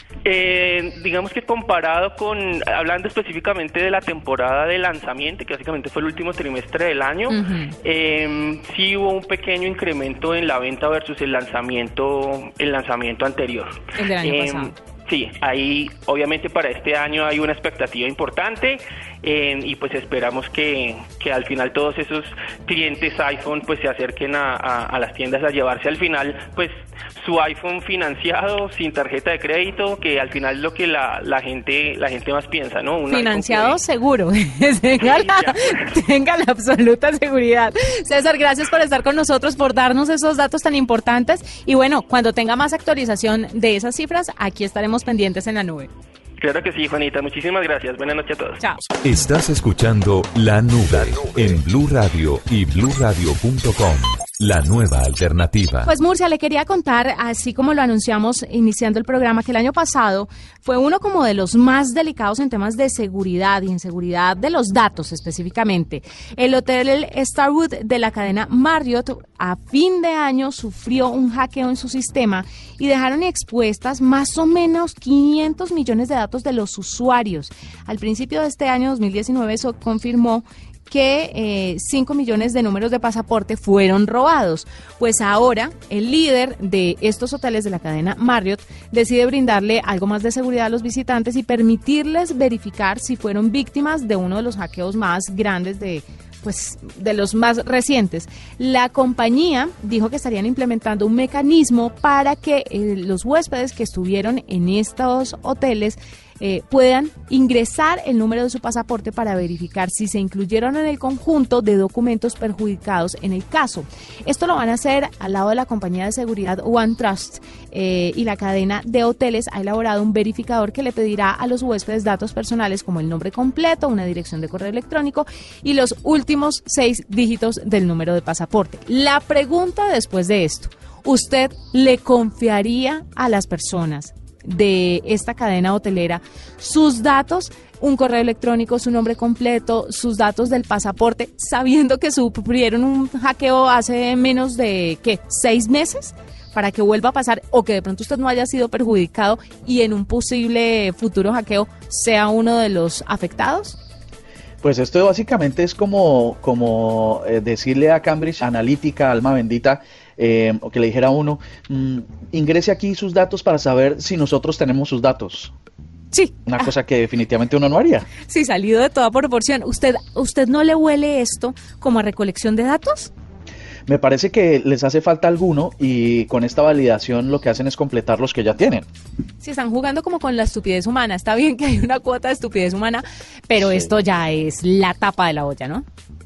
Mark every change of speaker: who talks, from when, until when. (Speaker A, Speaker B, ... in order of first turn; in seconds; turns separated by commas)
Speaker A: 0.2-33.8, Speaker B: 7.3-7.7, Speaker B: 13.9-14.7, Speaker B: 33.1-45.9, Speaker A: 35.0-35.8, Speaker A: 46.4-48.6, Speaker B: 48.6-48.9, Speaker C: 49.0-55.9, Speaker B: 55.8-153.8, Speaker D: 154.6-165.5, Speaker B: 166.1-166.7, Speaker D: 166.4-168.1, Speaker B: 168.2-173.1, Speaker D: 173.9-178.8, Speaker B: 179.4-185.8, Speaker D: 183.6-183.9